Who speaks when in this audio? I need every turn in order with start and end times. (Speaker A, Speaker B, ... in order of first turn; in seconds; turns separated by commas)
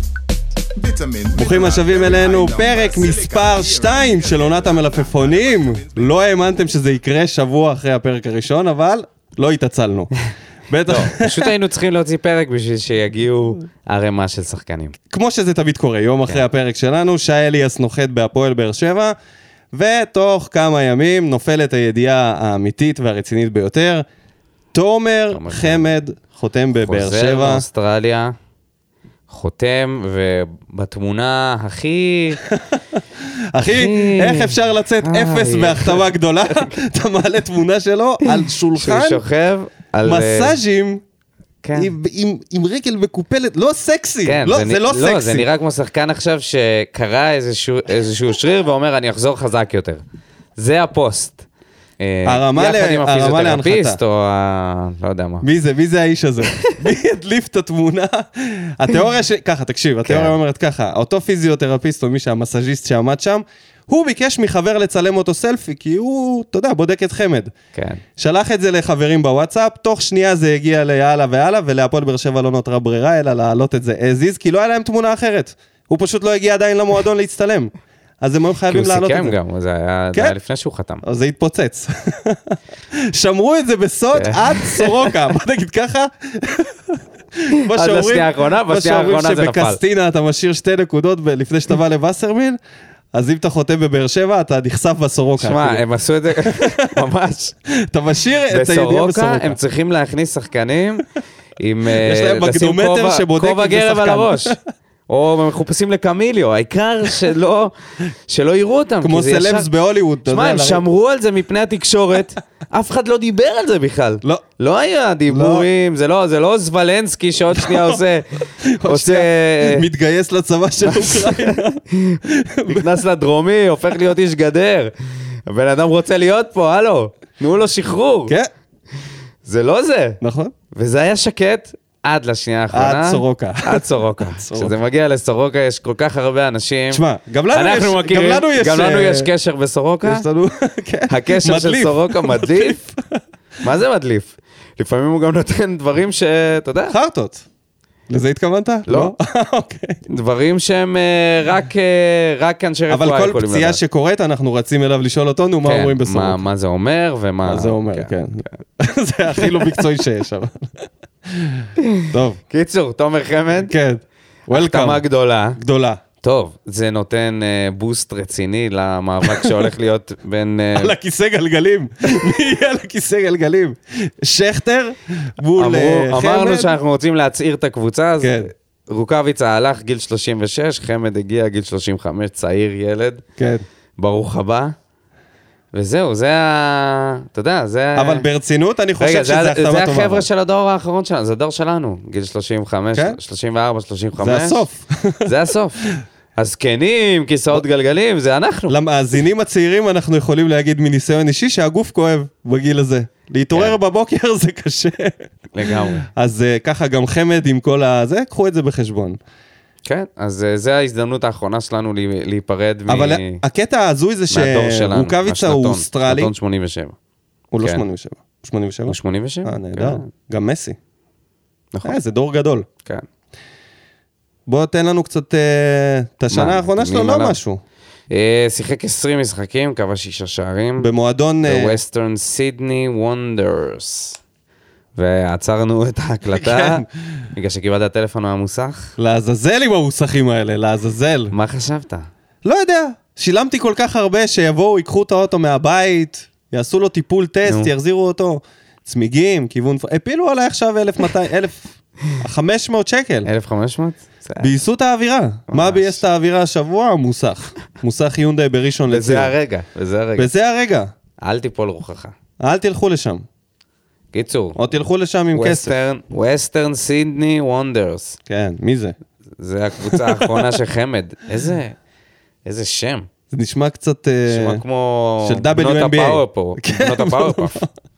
Speaker A: 0.8-6.2, Speaker B: 1.4-10.1, Speaker B: 10.7-11.5, Speaker C: 10.9-14.9, Speaker B: 15.1-19.1, Speaker B: 19.7-24.0, Speaker B: 24.7-27.6, Speaker C: 25.3-25.9, Speaker C: 26.8-28.3, Speaker C: 29.3-32.4, Speaker B: 32.5-33.0, Speaker B: 33.5-39.2, Speaker C: 33.6-36.7, Speaker C: 38.4-40.5, Speaker B: 40.0-41.0, Speaker C: 41.6-41.9, Speaker B: 41.7-45.5, Speaker C: 44.2-50.0, Speaker C: 50.5-51.4, Speaker C: 52.0-55.4, Speaker B: 52.2-54.0, Speaker B: 55.4-67.5, Speaker C: 60.0-60.4, Speaker C: 67.7-68.0, Speaker B: 68.2-79.3, Speaker C: 78.7-81.0, Speaker B: 81.0-92.6, Speaker C: 84.1-84.9, Speaker C: 87.7-89.8, Speaker B: 93.1-95.8, Speaker C: 95.4-97.5, Speaker B: 96.4-96.9, Speaker B: 97.8-99.6, Speaker C: 98.5-101.0, Speaker C: 101.6-104.5, Speaker B: 102.0-104.6, Speaker C: 105.1-107.7, Speaker C: 108.3-109.7, Speaker B: 109.0-110.8, Speaker C: 110.3-119.8, Speaker B: 115.3-115.7, Speaker B: 117.5-118.0, Speaker B: 118.6-122.9, Speaker C: 120.8-124.9, Speaker C: 125.5-128.3, Speaker C: 129.4-130.2, Speaker B: 130.2-130.5, Speaker C: 130.7-140.2, Speaker B: 132.7-134.7, Speaker B: 136.9-139.3, Speaker B: 140.0-143.0, Speaker C: 141.1-142.8, Speaker C: 143.6-146.9, Speaker B: 146.9-147.4, Speaker B: 148.1-150.0, Speaker C: 148.9-149.1, Speaker C: 150.1-153.8, Speaker B: 152.9-156.4, Speaker C: 155.6-158.1, Speaker B: 157.4-160.8, Speaker C: 159.4-159.8, Speaker B: 161.3-162.4, Speaker C: 161.8-163.7, Speaker B: 163.6-165.0, Speaker C: 164.5-165.6, Speaker B: 165.6-166.0, Speaker C: 166.2-170.9, Speaker B: 169.2-169.7, Speaker B: 170.8-176.7, Speaker C: 175.6-183.2, Speaker B: 178.2-178.5, Speaker B: 183.4-183.6, Speaker C: 184.0-184.7, Speaker C: 185.7-188.2, Speaker B: 187.9-190.2, Speaker C: 189.0-194.6, Speaker B: 194.2-195.3, Speaker C: 195.2-198.7, Speaker B: 198.7-209.2, Speaker C: 203.5-203.8, Speaker C: 205.5-206.1, Speaker C: 209.8-213.4, Speaker B: 212.9-216.3, Speaker C: 214.3-216.9, Speaker B: 217.5-220.8, Speaker C: 218.9-220.1, Speaker B: 221.8-222.7, Speaker B: 224.5-227.6, Speaker C: 226.3-227.4, Speaker C: 228.1-230.9, Speaker B: 230.8-231.8, Speaker C: 231.4-234.2, Speaker C: 234.9-238.9, Speaker B: 236.3-236.8, Speaker B: 239.0-241.3, Speaker C: 241.3-242.1, Speaker B: 242.4-251.6, Speaker C: 247.4-247.7, Speaker B: 252.2-253.3, Speaker C: 253.2-254.5, Speaker B: 254.4-259.3, Speaker C: 255.5-256.0, Speaker C: 258.9-260.3, Speaker B: 260.2-260.9, Speaker C: 261.2-262.1, Speaker B: 262.4-263.2, Speaker C: 264.1-264.6, Speaker B: 264.6-265.7, Speaker C: 265.3-268.2, Speaker B: 268.3-268.9, Speaker C: 269.4-271.8, Speaker B: 269.9-270.5, Speaker C: 272.4-273.1, Speaker B: 273.3-274.6, Speaker C: 274.2-277.6, Speaker B: 275.2-277.6